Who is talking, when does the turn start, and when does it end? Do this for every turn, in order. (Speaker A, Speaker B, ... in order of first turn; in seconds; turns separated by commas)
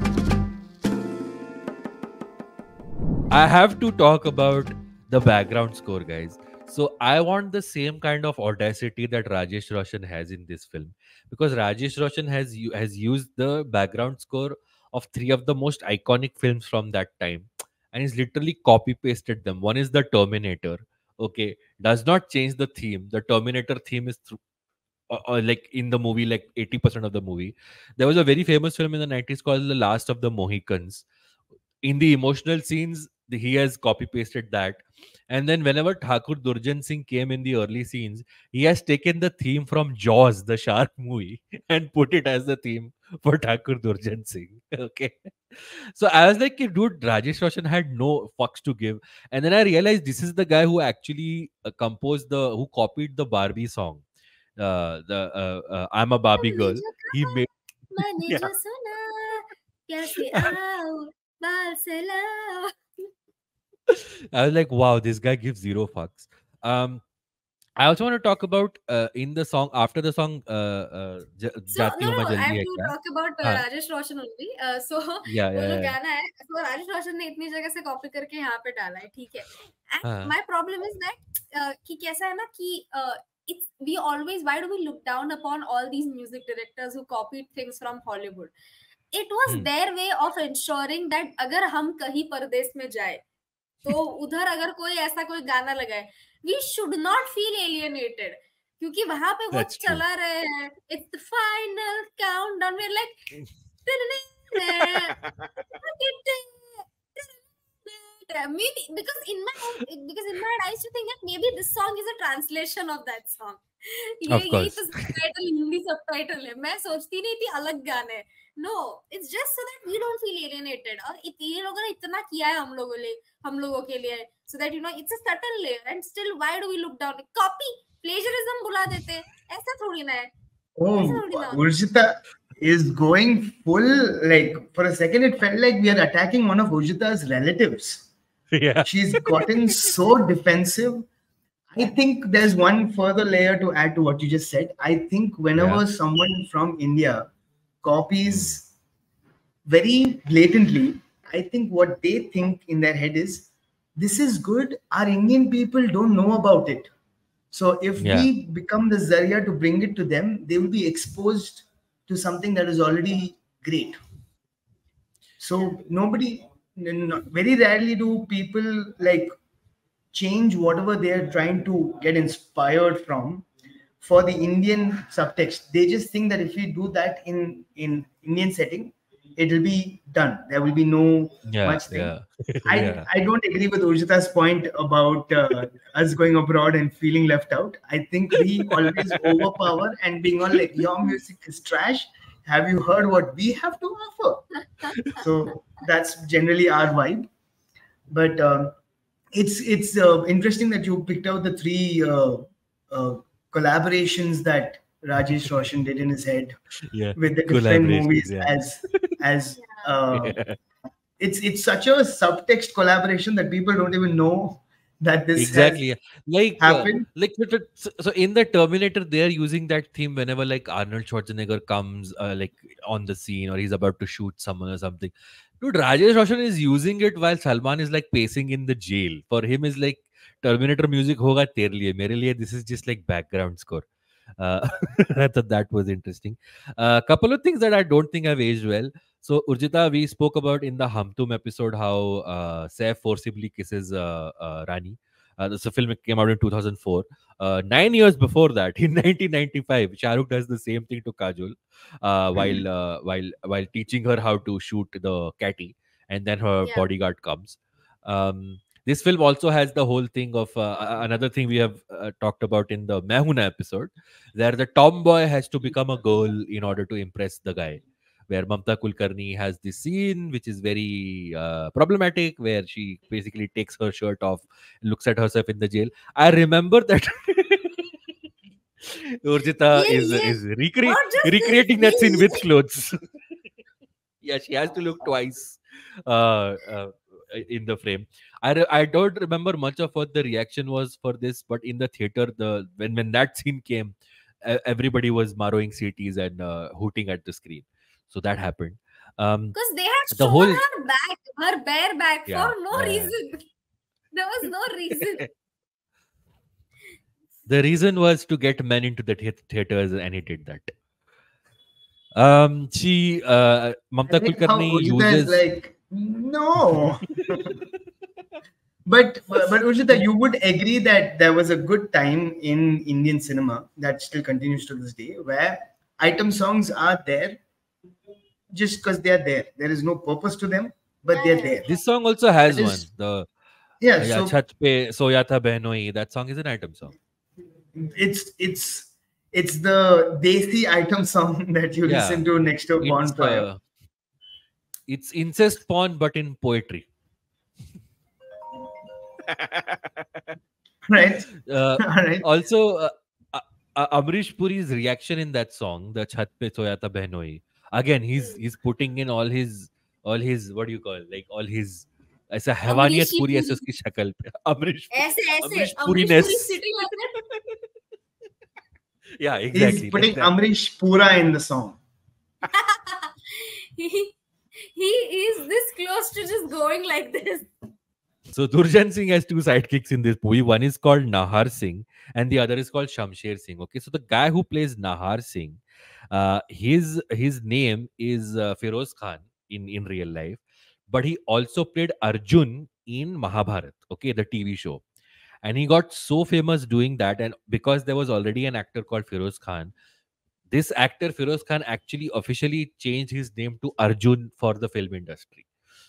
Speaker A: 3.3-24.4, Speaker A: 25.1-31.1, Speaker A: 31.9-54.0, Speaker A: 54.6-57.5, Speaker B: 56.4-62.7, Speaker A: 58.3-58.5, Speaker A: 60.3-60.6, Speaker A: 63.9-67.0, Speaker A: 67.8-73.7, Speaker B: 71.7-88.5, Speaker A: 75.3-76.0, Speaker A: 80.0-80.3, Speaker B: 89.1-93.2, Speaker B: 93.8-103.2, Speaker A: 99.5-100.0, Speaker B: 103.9-105.2, Speaker A: 104.8-105.3, Speaker B: 105.8-130.3, Speaker A: 114.3-115.2, Speaker C: 130.8-138.1, Speaker B: 131.0-131.7, Speaker A: 138.5-139.9, Speaker C: 138.8-141.1, Speaker C: 141.7-147.3, Speaker A: 145.6-145.8, Speaker C: 147.8-148.7, Speaker A: 148.2-148.6, Speaker C: 149.7-156.9, Speaker C: 157.5-164.0, Speaker A: 158.0-158.3, Speaker C: 165.4-169.3, Speaker C: 170.1-173.5, Speaker C: 174.0-182.1, Speaker A: 181.5-183.1, Speaker C: 182.7-194.4, Speaker A: 188.8-189.2, Speaker A: 194.8-195.2, Speaker C: 195.2-197.3, Speaker C: 198.1-198.7, Speaker C: 199.3-206.6, Speaker A: 205.4-205.7, Speaker A: 206.9-209.2, Speaker C: 207.2-210.4, Speaker B: 209.6-209.9, Speaker A: 210.1-210.6, Speaker C: 211.2-215.8, Speaker A: 215.4-233.9, Speaker C: 216.6-217.1, Speaker A: 234.4-277.8, Speaker C: 252.4-252.6, Speaker A: 278.8-283.0, Speaker B: 279.7-282.4, Speaker A: 284.2-299.6, Speaker B: 299.6-303.5, Speaker A: 300.1-300.6, Speaker A: 302.3-303.1, Speaker B: 304.1-305.3, Speaker A: 307.5-310.7, Speaker A: 312.2-315.4, Speaker C: 314.1-317.6, Speaker C: 318.9-327.4, Speaker C: 328.5-331.6, Speaker B: 331.1-331.8, Speaker A: 331.7-333.3, Speaker C: 332.5-332.9, Speaker C: 333.8-334.4, Speaker A: 334.0-336.9, Speaker C: 337.8-343.5, Speaker A: 341.9-342.3, Speaker A: 342.8-343.6, Speaker A: 344.9-346.9, Speaker C: 350.9-351.3, Speaker A: 351.4-366.6, Speaker C: 351.8-352.2, Speaker B: 358.2-358.4, Speaker B: 362.7-363.7, Speaker B: 364.9-367.2, Speaker A: 369.2-370.3, Speaker C: 369.5-371.8, Speaker B: 372.5-374.1, Speaker B: 374.7-377.5, Speaker A: 378.3-394.8, Speaker A: 395.4-399.7, Speaker A: 400.5-405.5